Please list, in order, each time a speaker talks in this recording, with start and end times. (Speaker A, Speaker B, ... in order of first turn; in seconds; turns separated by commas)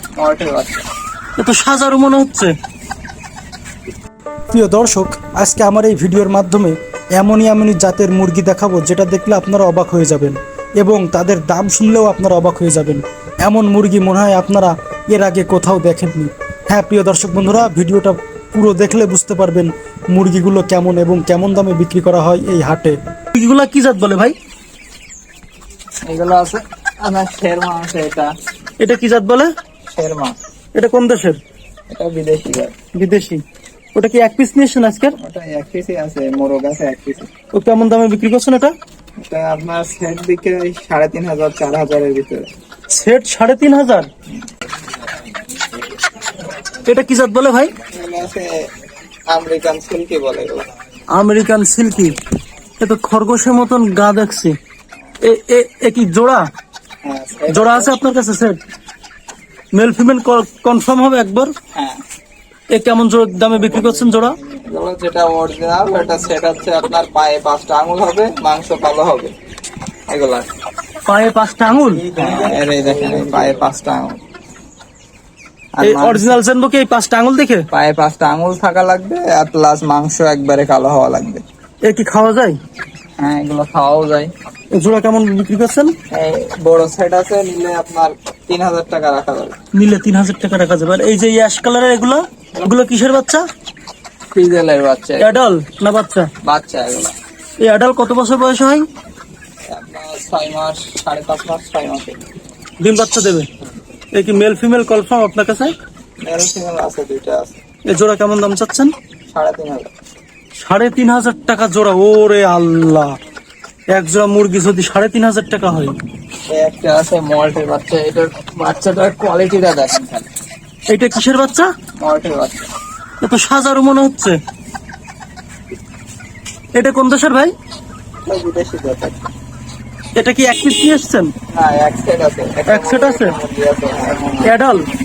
Speaker A: 0.2-0.8, Speaker B: 1.4-2.5, Speaker C: 4.5-23.0, Speaker B: 23.4-24.4, Speaker A: 26.1-28.3, Speaker B: 28.8-29.5, Speaker A: 29.9-30.4, Speaker B: 30.8-31.4, Speaker A: 31.9-32.8, Speaker B: 32.9-33.4, Speaker B: 34.0-35.2, Speaker A: 35.2-37.3, Speaker B: 37.5-38.7, Speaker A: 39.2-42.5, Speaker B: 42.9-44.1, Speaker B: 46.9-47.7, Speaker A: 47.9-48.6, Speaker A: 49.3-50.7, Speaker B: 51.1-52.2, Speaker B: 52.8-54.5, Speaker B: 55.2-56.4, Speaker A: 57.0-57.9, Speaker B: 57.5-58.6, Speaker B: 59.8-61.5, Speaker A: 61.7-62.0, Speaker B: 62.7-64.4, Speaker A: 63.7-69.3, Speaker A: 70.1-70.5, Speaker B: 71.1-72.1, Speaker C: 71.9-73.2, Speaker A: 72.2-74.2, Speaker A: 75.8-76.4, Speaker B: 75.8-77.7, Speaker A: 77.7-81.4, Speaker B: 81.8-82.6, Speaker A: 83.2-84.3, Speaker B: 84.7-85.9, Speaker A: 86.1-89.6, Speaker B: 89.7-93.5, Speaker A: 94.3-95.4, Speaker B: 95.2-96.3, Speaker A: 96.4-97.1, Speaker B: 97.6-98.9, Speaker A: 99.7-102.2, Speaker B: 102.8-103.5, Speaker B: 104.1-105.7, Speaker A: 106.2-107.6, Speaker B: 107.9-108.9, Speaker A: 109.3-109.9, Speaker B: 110.6-113.2, Speaker B: 113.9-116.0, Speaker A: 116.5-120.3, Speaker B: 120.9-121.7, Speaker A: 122.0-122.7, Speaker B: 123.2-124.4, Speaker B: 126.8-127.5, Speaker A: 128.3-129.3, Speaker B: 130.2-131.3, Speaker A: 131.5-134.5, Speaker B: 132.7-133.3, Speaker B: 134.4-134.9